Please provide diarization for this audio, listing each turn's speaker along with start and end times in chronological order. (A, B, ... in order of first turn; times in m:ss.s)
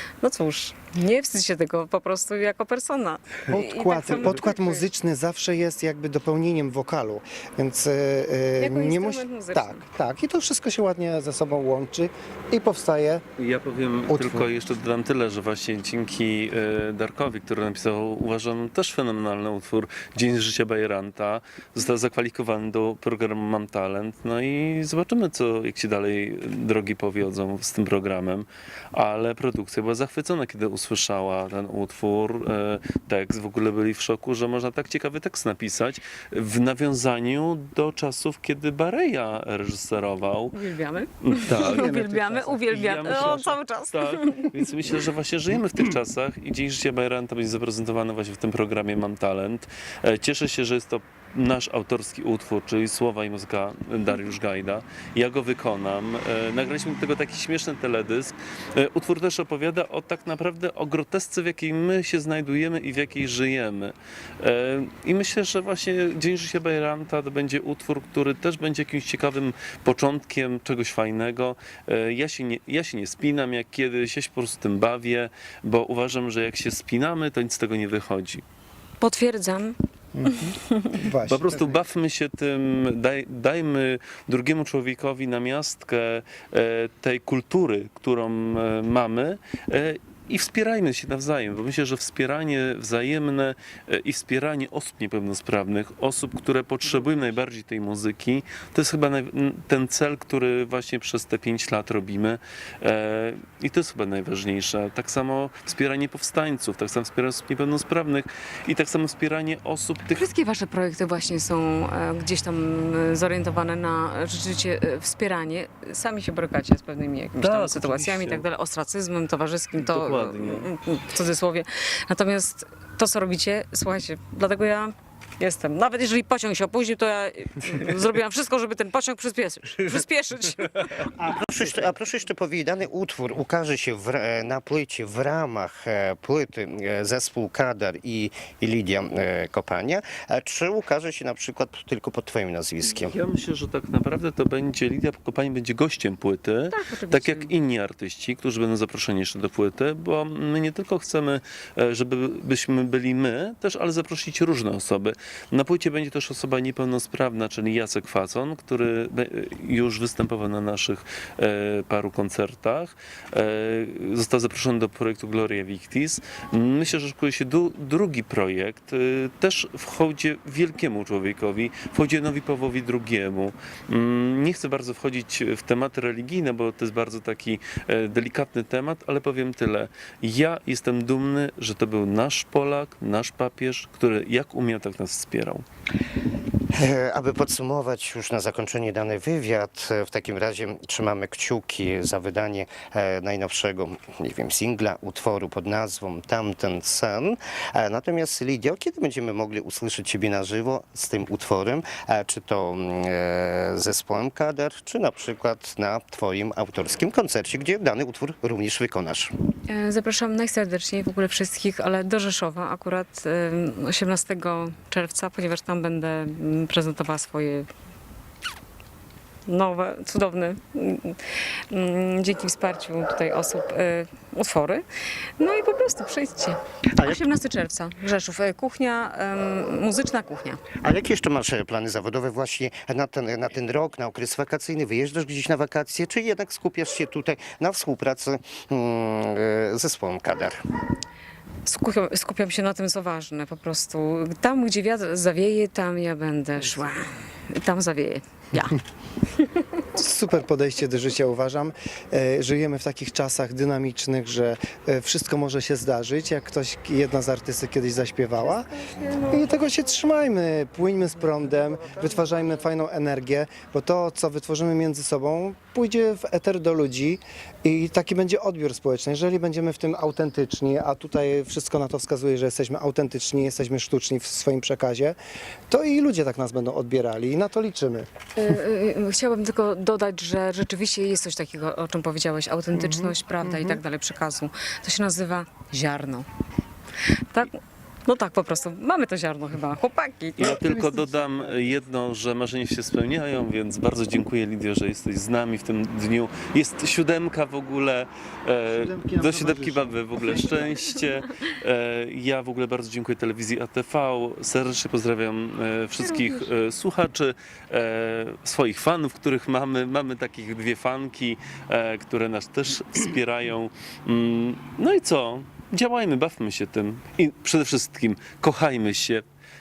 0:00.2-0:04.9 A
0:03.5-0:13.2 B
0:08.6-0:09.8 A
0:13.4-0:40.6 C
0:14.1-0:14.5 B
0:40.5-0:44.5 A
0:41.2-0:42.0 C
0:41.5-0:43.4 B
0:42.7-1:18.4 C
1:19.0-1:21.0 A
1:20.1-1:21.8 B
1:21.3-1:50.2 C
1:50.1-2:11.2 A
1:57.4-1:58.5 C
1:59.8-2:00.7 C
2:11.2-2:23.2 D
2:22.8-3:05.6 C
2:26.7-2:27.5 A
3:06.7-3:29.3 D
3:29.7-3:37.7 A
3:39.5-3:44.8 A
3:45.4-3:50.6 A
3:50.8-4:00.6 D
4:01.6-4:08.8 A
4:09.9-4:18.7 B
4:18.7-4:19.3 A
4:19.3-4:35.2 B
4:35.7-4:38.1 B
4:38.4-4:46.3 A
4:42.7-4:43.8 B
4:47.3-4:50.6 A
4:50.4-5:19.2 C
4:50.4-4:51.7 B
4:58.7-5:00.0 B
5:06.1-5:06.4 A